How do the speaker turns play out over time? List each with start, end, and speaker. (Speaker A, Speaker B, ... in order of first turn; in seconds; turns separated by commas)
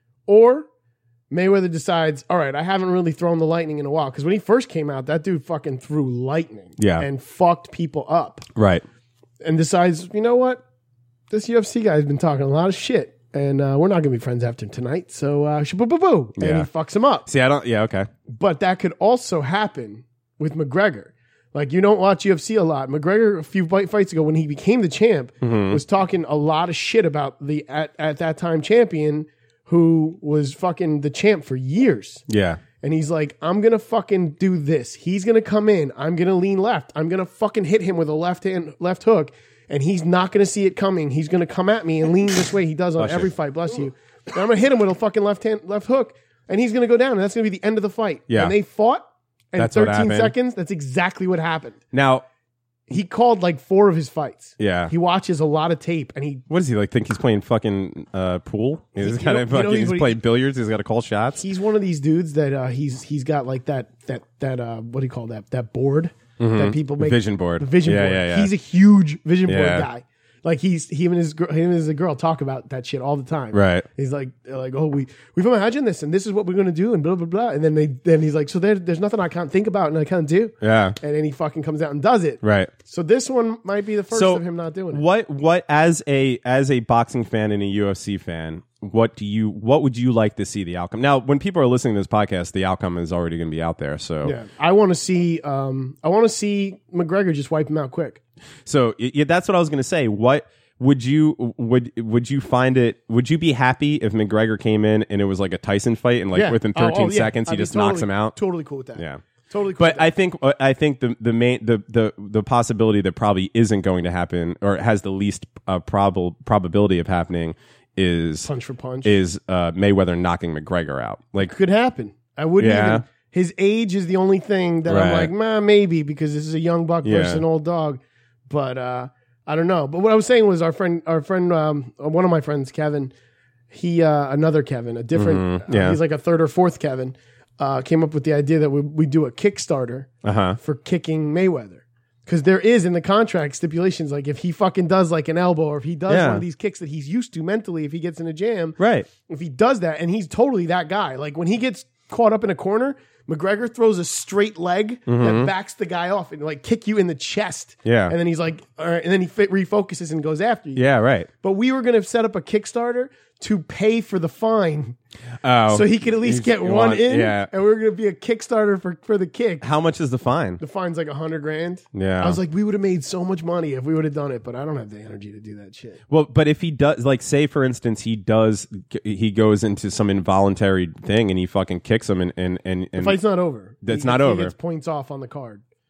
Speaker A: 0.3-0.7, Speaker A: 1.3-8.4, Speaker B: 6.8-7.1, Speaker B: 8.6-8.8, Speaker A: 9.4-10.6, Speaker A: 11.3-17.3, Speaker B: 16.4-16.7, Speaker B: 17.2-18.1, Speaker A: 18.3-32.2, Speaker B: 25.4-25.8, Speaker B: 32.3-32.6, Speaker A: 32.8-51.8, Speaker B: 43.0-43.3, Speaker B: 48.3-48.5, Speaker B: 49.5-50.3, Speaker B: 51.9-52.2, Speaker A: 52.9-56.4, Speaker B: 54.6-54.9, Speaker B: 56.5-61.4, Speaker A: 59.0-60.2, Speaker A: 61.4-85.0, Speaker B: 66.4-68.5, Speaker B: 69.5-69.9, Speaker B: 73.5-73.9, Speaker B: 80.6-81.0, Speaker B: 82.4-82.7, Speaker B: 84.1-94.3, Speaker A: 94.2-98.2, Speaker B: 98.6-108.4, Speaker A: 106.3-110.1, Speaker B: 108.9-109.2, Speaker B: 109.8-118.5, Speaker A: 118.4-119.2, Speaker B: 119.0-121.5, Speaker A: 121.4-133.1, Speaker B: 122.6-123.0, Speaker B: 124.8-125.3, Speaker B: 127.0-127.4, Speaker A: 133.7-160.8, Speaker B: 135.1-136.0, Speaker B: 140.2-140.6, Speaker B: 146.1-146.4, Speaker B: 148.8-149.1, Speaker B: 155.1-155.5, Speaker B: 157.8-158.2, Speaker B: 160.7-161.3, Speaker A: 161.4-165.0, Speaker B: 165.4-167.5, Speaker A: 165.7-169.7, Speaker B: 169.6-170.6, Speaker A: 170.6-176.0, Speaker B: 171.9-172.4, Speaker B: 176.1-183.2, Speaker A: 182.9-185.6, Speaker B: 183.8-184.5